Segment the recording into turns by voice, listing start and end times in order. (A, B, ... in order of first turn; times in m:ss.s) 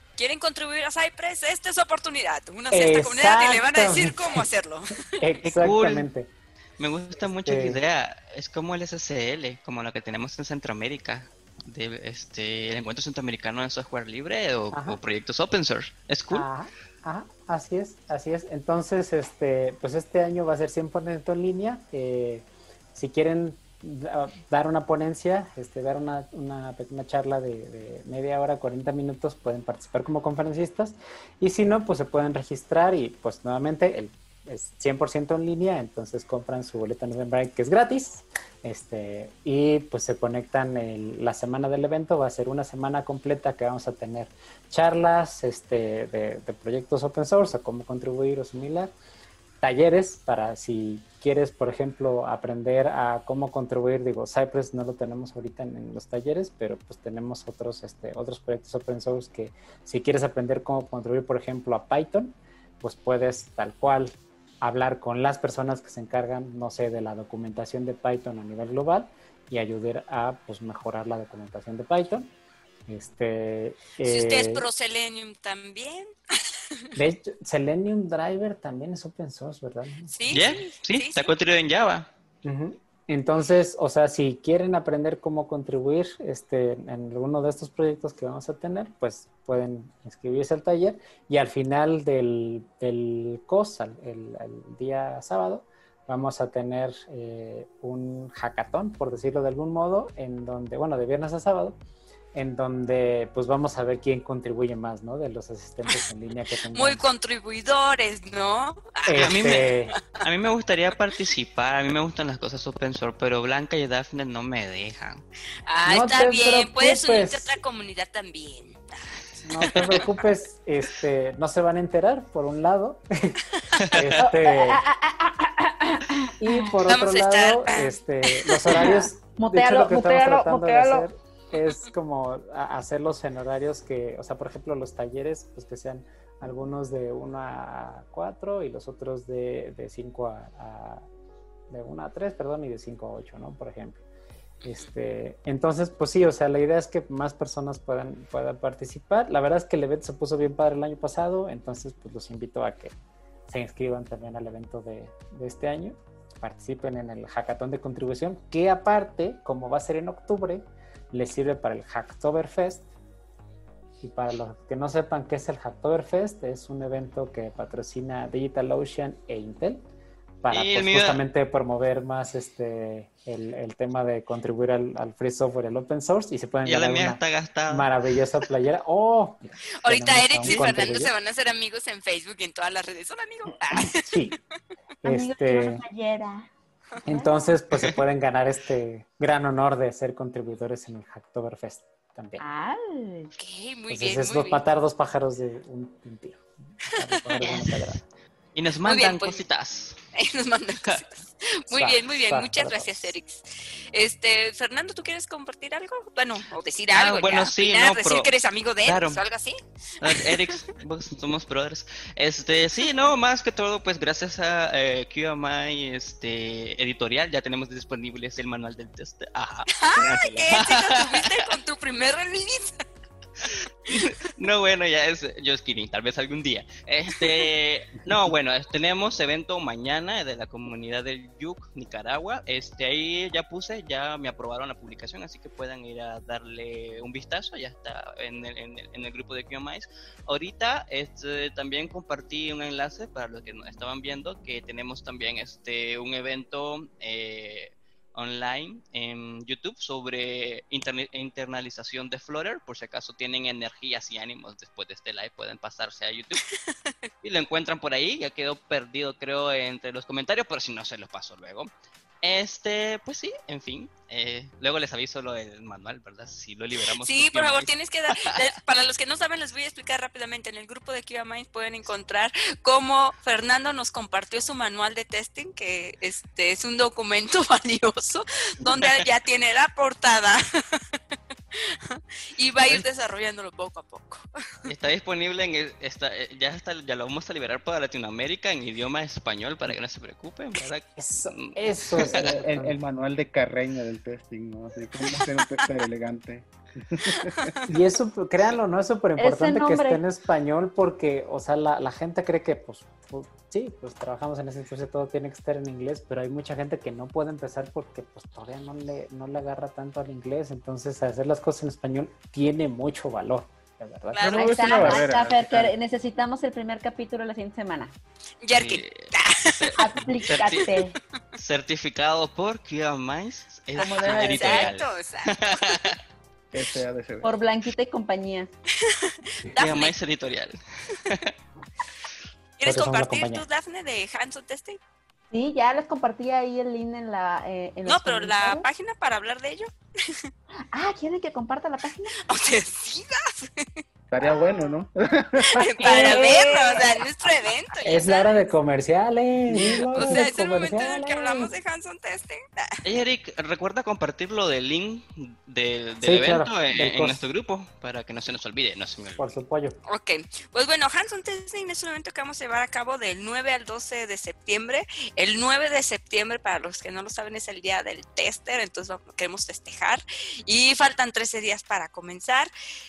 0:00.2-0:05.4 A
0:02.7-0:04.5 B
0:05.1-0:06.3 B
0:05.4-0:06.0 C
0:06.8-0:16.5 C
0:07.4-0:07.8 B
0:14.7-0:15.0 B
0:16.3-0:48.9 B
0:49.6-1:12.3 B
1:12.9-1:14.6 B
1:14.0-1:16.4 A
1:17.0-1:20.5 B
1:20.1-1:21.3 A
1:20.3-1:22.1 C
1:22.4-1:41.8 B
1:42.3-1:47.0 B
1:46.7-1:49.7 A
1:49.0-1:49.9 B
1:49.2-1:55.2 C
1:55.6-1:58.8 A
1:55.8-1:57.6 B
1:59.4-2:04.8 B
1:59.6-2:00.0 A
2:03.8-2:04.2 C
2:04.2-2:06.7 D
2:06.4-2:21.1 B
2:06.8-2:08.9 A
2:08.7-2:11.1 D
2:11.5-2:11.9 A
2:21.7-2:24.0 B
2:24.6-2:24.9 A
2:24.6-2:32.9 B
2:33.5-2:42.9 B
2:44.0-2:49.8 B
2:50.4-3:01.1 B
2:50.5-2:51.2 C
2:56.6-2:57.9 C
2:59.8-3:04.2 A
3:03.9-3:04.4 B
3:05.0-3:05.8 B
3:05.0-3:06.5 D
3:07.0-3:07.5 D
3:07.0-3:12.4 B
3:12.4-3:13.3 D
3:13.4-3:14.6 A
3:13.9-3:18.0 B
3:17.4-3:17.8 C
3:18.5-3:20.0 C
3:18.8-3:19.4 A
3:20.1-3:30.6 A
3:21.7-3:23.1 B
3:26.9-3:28.3 C
3:28.8-3:29.2 C
3:30.0-3:41.5 C
3:39.7-3:42.8 A
3:43.4-4:16.4 C
3:47.2-3:47.5 A
4:17.2-4:21.7 C
4:22.2-4:28.4 C
4:27.0-4:40.8 A
4:38.6-4:39.0 C
4:41.5-4:44.2 A
4:44.6-4:52.5 C
4:51.0-4:52.8 B
4:52.0-4:57.5 E
4:57.7-5:14.7 B
4:59.2-5:00.0 D
5:14.1-5:15.3 A
5:14.2-5:15.7 E
5:14.4-5:17.9 D
5:18.4-5:20.8 A
5:18.5-5:20.7 C
5:19.8-5:21.0 D
5:21.4-5:26.0 C
5:23.8-5:24.7 D
5:23.8-5:26.0 A
5:26.5-5:27.3 E
5:27.2-5:28.5 D
5:28.8-5:29.9 A
5:29.5-5:31.3 C
5:32.6-5:34.8 A
5:32.6-5:33.4 B
5:35.3-5:38.7 D
5:37.8-5:40.3 A
5:40.7-5:42.2 D
5:42.2-5:43.8 A
5:44.1-5:45.7 E
5:45.5-5:48.3 A
5:45.8-5:46.9 D
5:47.8-5:51.5 B
5:49.5-5:50.2 E
5:49.9-5:52.8 A
5:52.8-5:59.3 C
5:56.0-5:57.2 B
5:59.2-5:59.8 B
5:59.9-6:12.5 A